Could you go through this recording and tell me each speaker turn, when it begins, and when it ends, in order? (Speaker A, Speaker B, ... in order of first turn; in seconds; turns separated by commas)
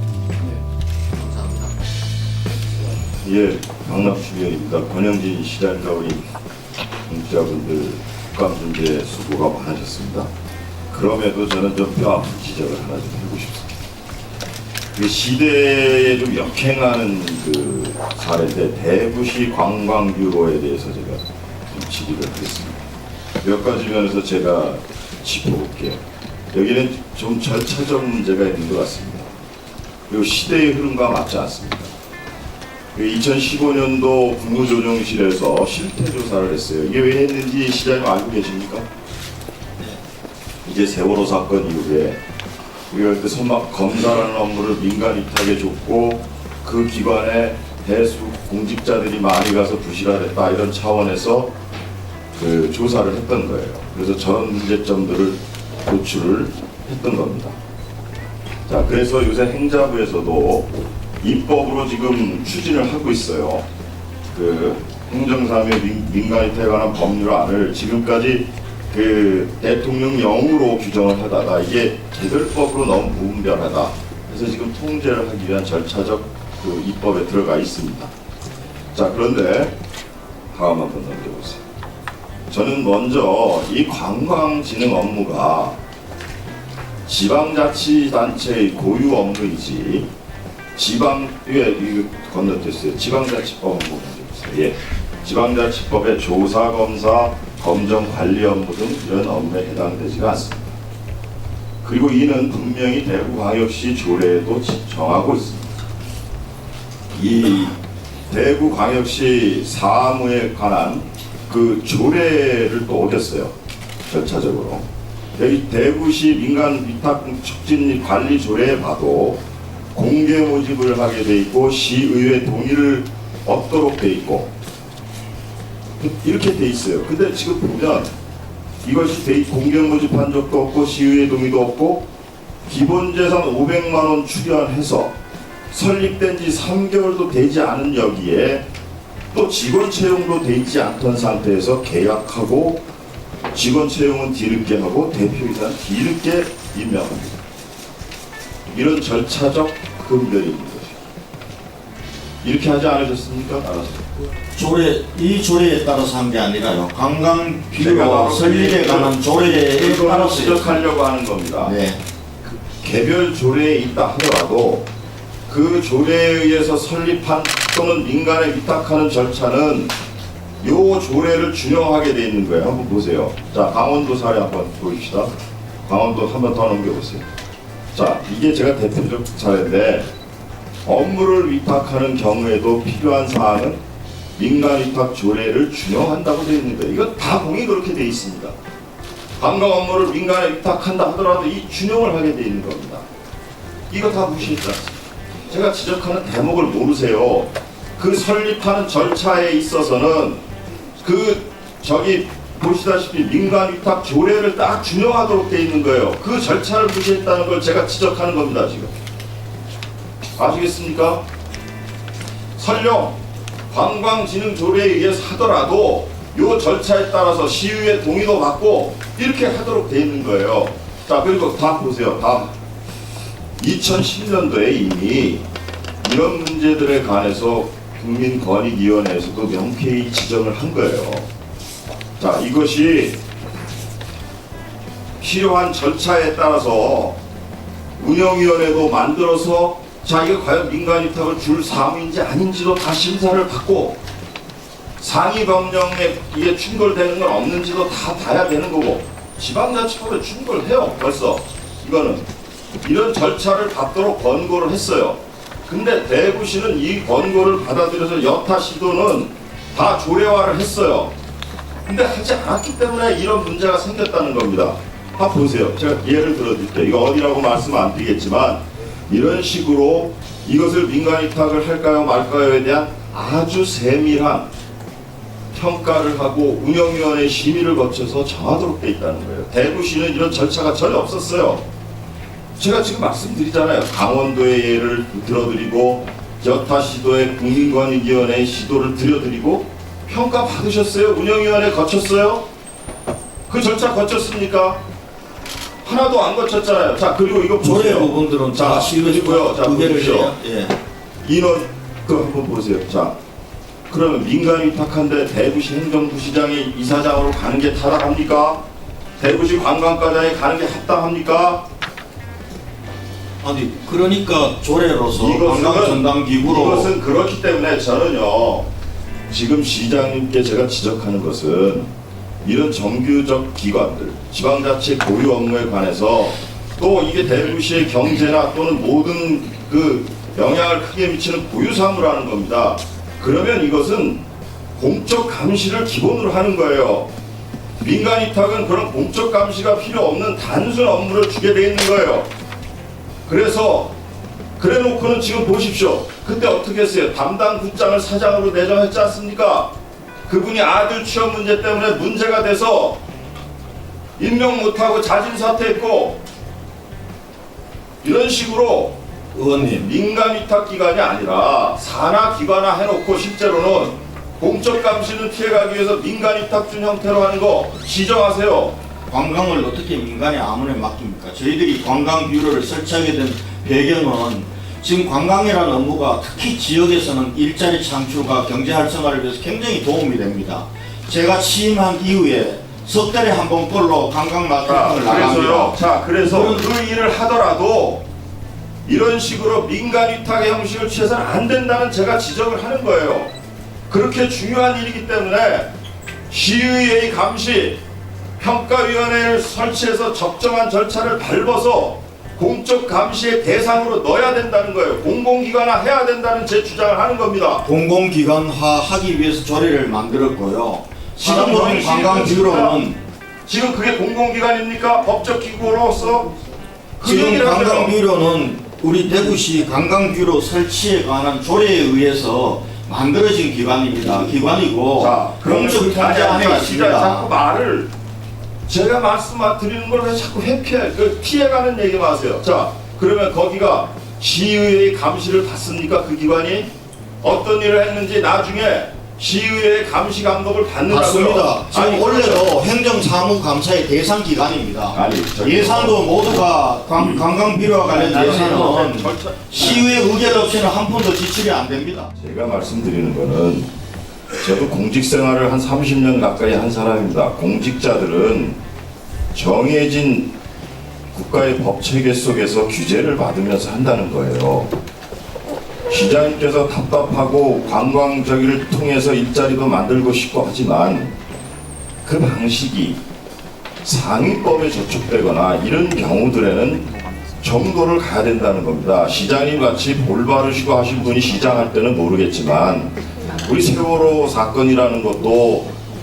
Speaker A: 1.2-1.7, Speaker B: 3.2-6.3, Speaker B: 7.1-10.3, Speaker B: 10.9-13.7, Speaker B: 14.9-22.8, Speaker B: 23.4-26.0, Speaker B: 26.5-29.3, Speaker B: 30.1-31.9, Speaker B: 32.9-38.9, Speaker B: 40.6-42.2, Speaker B: 42.9-51.5, Speaker B: 52.4-57.6, Speaker B: 58.7-63.6, Speaker B: 64.3-78.1, Speaker B: 78.9-79.8, Speaker B: 80.5-81.6, Speaker B: 82.5-85.8, Speaker B: 87.1-90.1, Speaker B: 90.8-100.8, Speaker B: 101.8-105.8, Speaker B: 107.1-107.8, Speaker B: 108.3-113.5, Speaker B: 114.1-114.8, Speaker B: 115.4-119.4, Speaker B: 119.9-124.5, Speaker B: 126.0-128.1, Speaker B: 128.8-132.1, Speaker B: 132.7-135.1, Speaker B: 135.7-138.7, Speaker B: 139.3-142.8, Speaker B: 143.5-147.4, Speaker B: 148.7-151.0, Speaker B: 152.4-154.1, Speaker A: 154.5-160.9, Speaker B: 157.7-161.8, Speaker A: 161.6-162.0, Speaker B: 162.4-164.9, Speaker B: 165.5-169.9, Speaker B: 170.6-175.3, Speaker B: 175.9-177.3, Speaker B: 177.9-180.1, Speaker B: 180.8-183.8, Speaker B: 184.4-188.6, Speaker B: 189.4-193.1, Speaker B: 193.9-200.4, Speaker B: 201.0-208.9, Speaker B: 210.4-211.2, Speaker B: 212.6-213.2, Speaker B: 213.7-222.5, Speaker B: 223.6-225.4, Speaker B: 226.0-231.3, Speaker B: 232.2-233.2, Speaker B: 235.2-237.2, Speaker B: 238.0-244.0, Speaker B: 245.0-252.3, Speaker B: 252.8-261.1, Speaker B: 261.9-274.5, Speaker B: 275.5-281.6, Speaker B: 282.6-292.4, Speaker B: 293.5-294.8, Speaker B: 295.8-300.3, Speaker A: 297.6-300.8, Speaker B: 301.2-303.1, Speaker B: 303.9-308.6, Speaker B: 309.2-311.6, Speaker A: 313.4-316.9, Speaker B: 315.1-318.7, Speaker B: 319.3-321.9, Speaker B: 322.4-334.2, Speaker B: 334.8-337.1, Speaker B: 337.8-342.3, Speaker B: 343.3-343.9, Speaker B: 344.6-349.7, Speaker B: 350.3-353.0, Speaker B: 354.2-356.2, Speaker B: 358.0-359.0, Speaker A: 359.3-359.9, Speaker B: 359.7-368.8, Speaker A: 369.1-386.7, Speaker B: 384.6-388.1, Speaker B: 388.9-393.3, Speaker B: 393.9-395.7, Speaker B: 396.3-397.8, Speaker B: 398.4-407.7, Speaker A: 407.6-413.0, Speaker B: 411.2-412.8, Speaker B: 413.5-416.3, Speaker B: 417.0-418.0, Speaker A: 417.0-427.3, Speaker B: 425.0-427.9, Speaker B: 428.7-436.7, Speaker B: 437.2-442.6, Speaker A: 440.9-452.1, Speaker B: 444.9-446.3, Speaker B: 447.9-450.4, Speaker B: 452.2-453.7, Speaker B: 454.4-458.6, Speaker B: 459.3-460.3, Speaker B: 461.1-464.7, Speaker B: 465.9-471.2, Speaker B: 472.1-473.0, Speaker B: 473.8-485.7